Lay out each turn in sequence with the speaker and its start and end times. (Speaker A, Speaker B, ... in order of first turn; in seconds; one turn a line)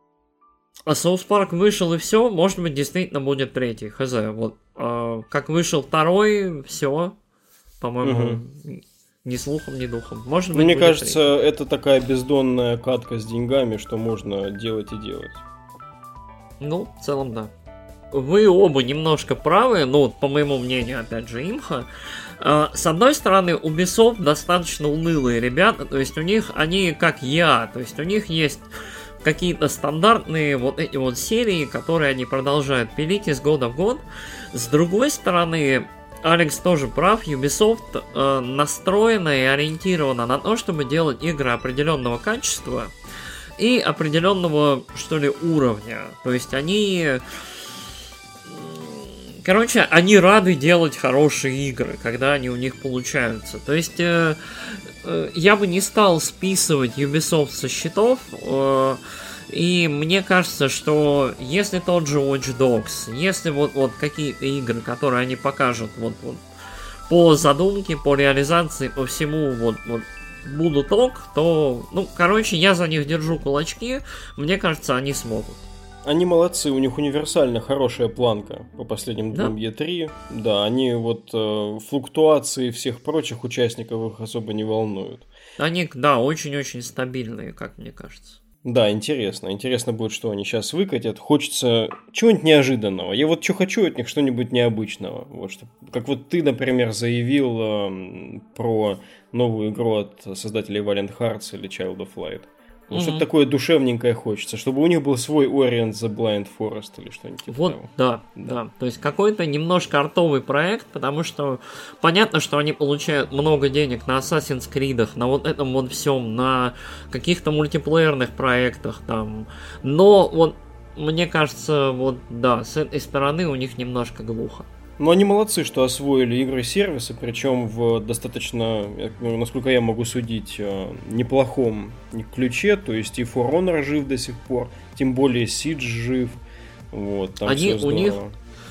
Speaker A: 0.9-7.2
Speaker A: 7.8-11.2
Speaker B: 8.0-8.4
Speaker B: 10.5-15.4
Speaker A: 16.6-17.5
Speaker A: 18.1-21.9
Speaker A: 22.4-28.6
Speaker A: 29.2-42.9
Speaker A: 43.6-47.2
Speaker A: 48.5-66.4
Speaker A: 67.1-75.6
Speaker B: 76.0-85.3
Speaker A: 85.6-88.4
Speaker B: 88.6-108.6
Speaker A: 102.9-103.3
Speaker A: 107.5-124.7
Speaker B: 125.0-136.4
Speaker B: 136.9-138.3
Speaker A: 137.4-138.2